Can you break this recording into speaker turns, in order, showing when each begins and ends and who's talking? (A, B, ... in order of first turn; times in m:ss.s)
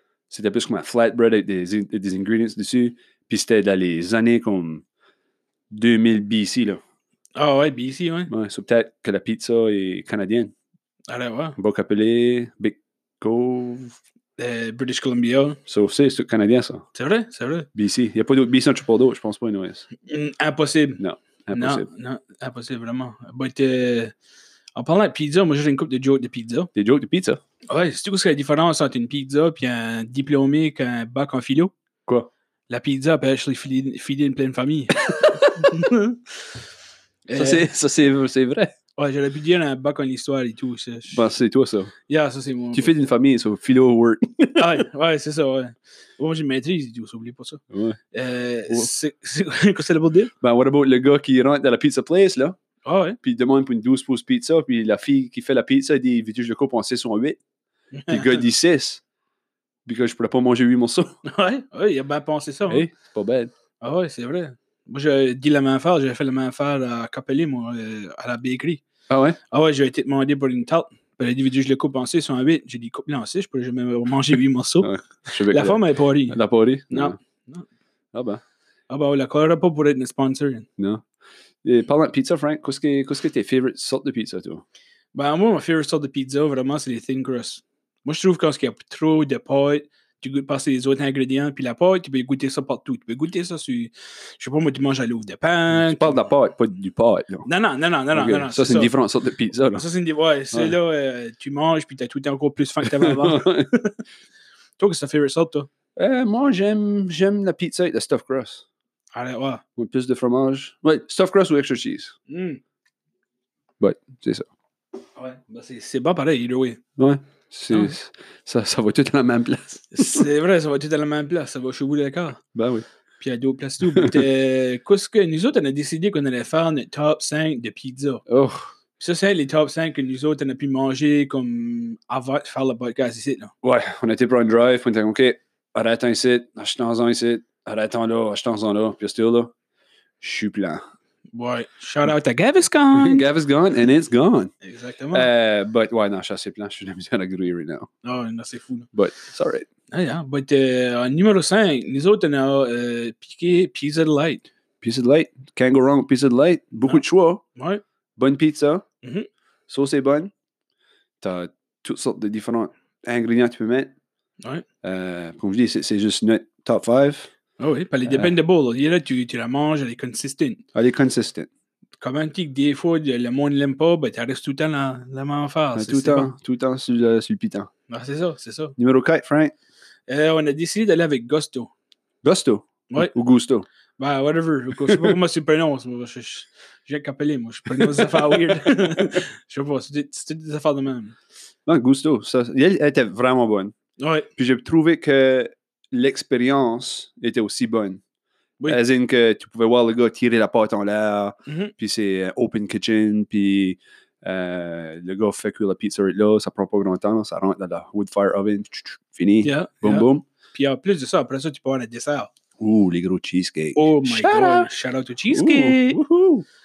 0:00.3-0:04.8 A
0:05.7-0:06.8 A
0:07.4-0:08.3 B
0:08.3-0:10.5 A
0:11.1-0:11.6 B
0:11.6-0:14.0 A
0:14.4-0:15.6 B
0:15.7-0:16.8 A
0:17.0-0:17.7 B
0:17.8-0:19.8 A
0:20.1-0:24.1 B
0:21.0-0:21.9 A
0:24.8-0:26.7 B
0:26.8-0:27.4 A
0:27.7-0:31.7 B
0:32.7-0:36.2 B
0:35.2-0:35.5 A
0:37.3-0:37.7 B
0:37.4-0:38.7 A
0:39.0-0:41.3 B
0:41.1-0:41.9 A
0:42.1-0:42.9 B
0:42.7-0:44.8 A
0:44.6-0:50.3 B
0:47.7-0:48.0 A
0:50.4-0:52.6 A
0:52.9-0:53.2 B
0:53.2-0:57.4 A
0:57.9-0:58.4 B
0:58.1-0:59.0 A
0:59.9-1:01.2 A
1:01.2-1:02.9 B
1:02.7-1:03.5 A
1:03.8-1:08.8 B
1:09.1-1:09.4 A
1:09.5-1:16.4 B
1:14.8-1:17.2 A
1:16.9-1:17.6 B
1:18.1-1:18.4 A
1:18.9-1:20.7 B
1:20.8-1:21.0 A
1:21.6-1:24.6 A
1:25.1-1:36.2 B
1:35.7-1:37.5 A
1:37.4-1:38.9 B
1:38.1-1:39.8 A
1:39.7-1:44.0 B
1:40.5-1:40.8 A
1:42.8-1:43.7 A
1:44.8-1:45.7 B
1:46.0-1:48.6 A
1:49.1-1:49.6 B
1:49.8-1:52.2 A
1:52.3-1:52.6 B
1:53.8-1:54.5 A
1:55.2-1:56.8 B
1:57.0-2:00.3 A
1:57.7-1:58.0 B
1:59.9-2:02.4 B
2:02.6-2:02.8 A
2:03.2-2:08.2 B
2:03.9-2:04.2 A
2:08.3-2:08.7 A
2:09.0-2:13.5 B
2:13.6-2:19.5 A
2:20.2-2:20.8 A
2:21.3-2:23.3 B
2:22.9-2:24.5 A
2:24.6-2:25.3 B
2:25.1-2:27.9 A
2:28.0-2:28.9 B
2:28.9-2:29.7 A
2:29.9-2:34.4 B
2:34.8-2:37.4 A
2:37.6-2:37.8 B
2:38.2-2:38.8 A
2:39.0-2:39.3 B
2:39.7-2:40.3 A
2:41.2-2:43.9 A
2:44.8-2:47.3 A
2:47.6-2:50.6 B
2:48.1-2:48.4 A
2:50.8-2:51.5 A
2:52.0-2:56.3 B
2:55.8-2:57.7 A
2:57.9-2:58.8 B
2:58.8-2:59.5 A
3:00.1-3:01.7 B
3:02.2-3:03.7 A
3:04.0-3:11.2 B
3:04.8-3:05.2 A
3:07.7-3:09.2 A
3:11.7-3:13.8 A
3:14.0-3:14.3 B
3:14.4-3:18.0 A
3:18.7-3:30.2 A
3:21.5-3:21.7 B
3:29.4-3:32.3 B
3:32.6-3:34.7 A
3:33.8-3:36.0 B
3:35.3-3:36.4 A